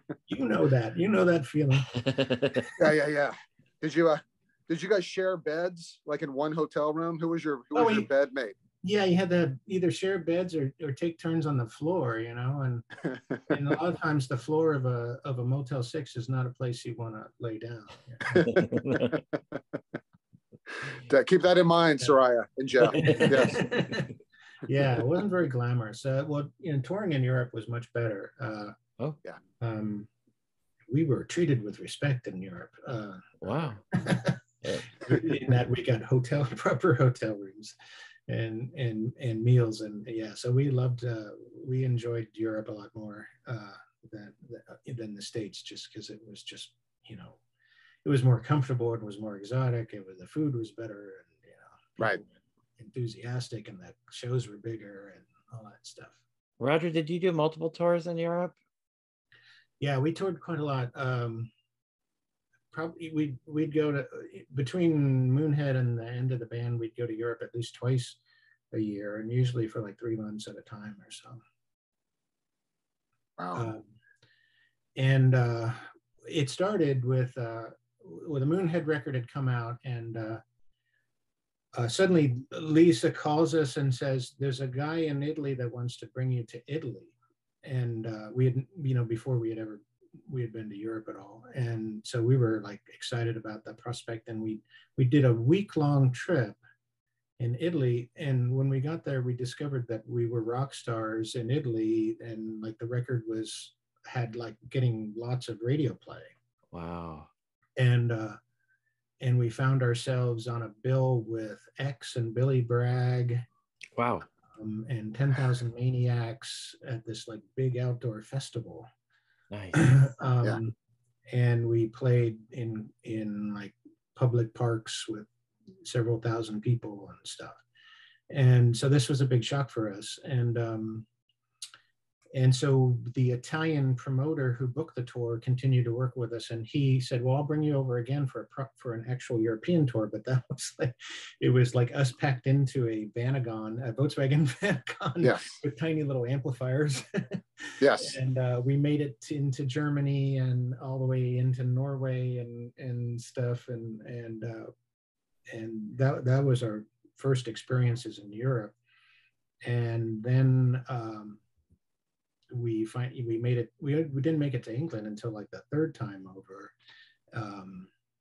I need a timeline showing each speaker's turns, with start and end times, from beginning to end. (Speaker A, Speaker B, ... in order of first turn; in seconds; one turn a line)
Speaker A: 0.3-1.9
Speaker B: 1.9-2.7
Speaker C: 2.8-8.6
Speaker A: 7.7-8.1
Speaker A: 8.8-12.8
Speaker A: 13.5-18.5
Speaker B: 18.4-19.2
Speaker C: 21.1-23.7
Speaker A: 22.9-24.1
Speaker B: 23.0-23.3
Speaker A: 24.7-28.8
Speaker A: 29.6-30.1
Speaker A: 30.9-33.4
Speaker B: 33.4-34.0
Speaker A: 33.9-34.4
Speaker B: 34.6-35.1
Speaker A: 34.9-37.8
Speaker A: 38.3-47.4
Speaker A: 48.0-52.3
Speaker A: 52.8-56.2
Speaker B: 56.6-58.5
Speaker A: 59.8-61.5
Speaker A: 62.7-68.2
Speaker A: 68.7-71.4
Speaker C: 73.4-73.7
Speaker A: 73.5-73.9
Speaker A: 75.0-80.4
Speaker A: 81.8-96.6
Speaker A: 97.4-106.3
Speaker B: 106.7-107.3
Speaker A: 107.8-108.4
Speaker A: 109.2-113.4
Speaker B: 114.0-114.3
Speaker A: 114.5-118.9
Speaker B: 119.5-120.0
Speaker A: 119.8-120.8
Speaker A: 121.3-125.3
Speaker A: 125.8-127.6
Speaker A: 128.3-131.1
Speaker A: 132.3-154.7
Speaker C: 145.2-145.6
Speaker C: 147.8-148.2
Speaker A: 155.5-158.7
Speaker A: 159.7-161.4
Speaker A: 162.5-166.7
Speaker A: 167.3-167.9